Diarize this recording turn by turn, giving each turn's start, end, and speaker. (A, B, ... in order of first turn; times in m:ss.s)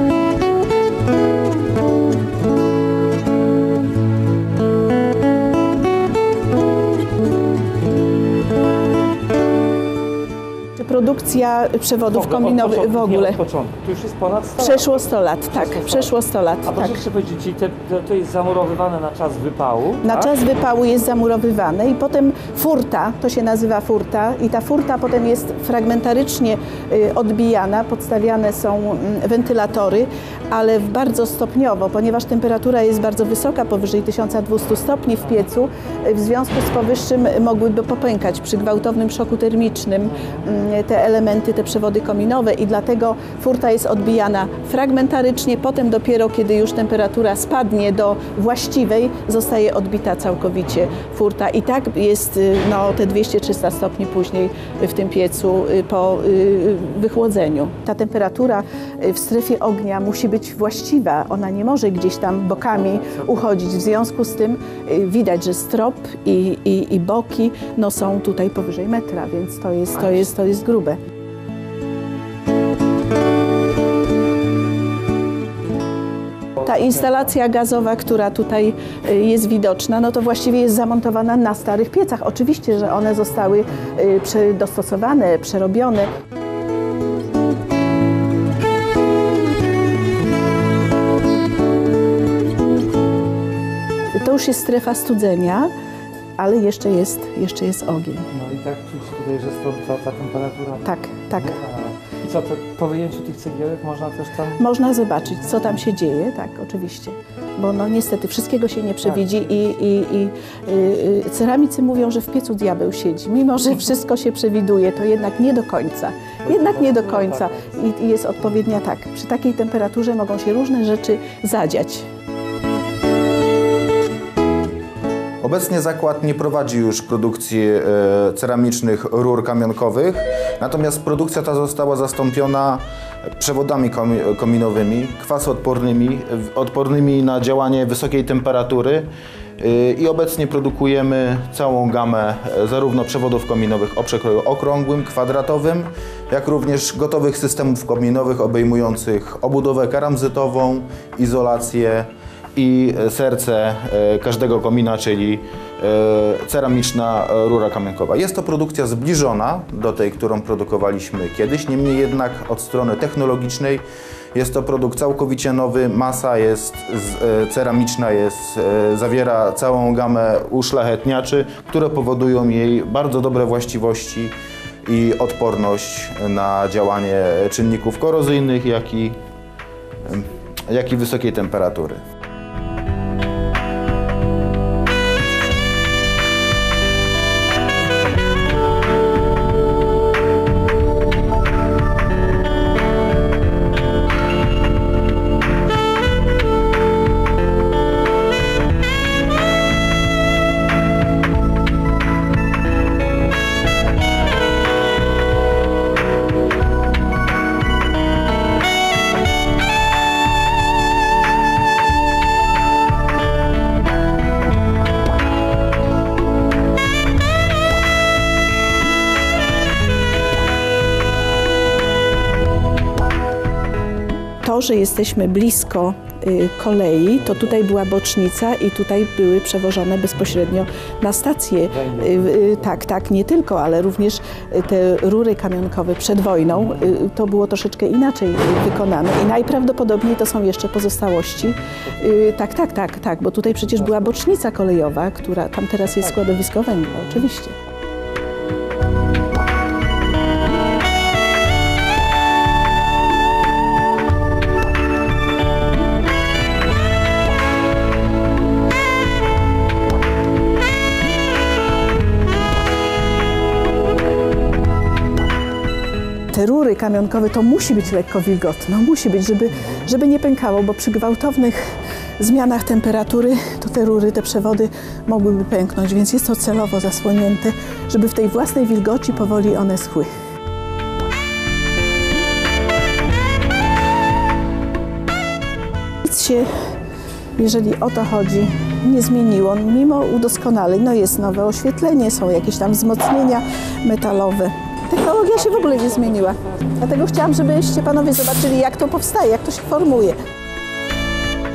0:10.8-0:13.4 A
0:12.1-0:16.1 B
0:14.6-0:17.0 A
0:16.6-0:20.3 B
0:20.0-1:11.0 A
0:40.1-0:40.4 B
1:16.6-1:26.1 A
1:34.2-1:35.7 A
1:36.4-1:38.3 A
1:38.3-1:44.6 B
1:40.8-1:41.6 A
1:44.6-2:02.1 A
1:49.1-1:49.7 B
1:56.4-1:57.7 B
2:05.4-2:54.3 C
2:54.8-2:59.2 C
3:00.0-3:02.0 C
3:44.4-4:07.6 A
3:51.7-3:52.7 B
4:01.6-4:01.8 B
4:26.3-4:40.1 A
4:46.0-4:46.5 A
4:47.4-5:00.2 A
4:55.3-4:56.6 B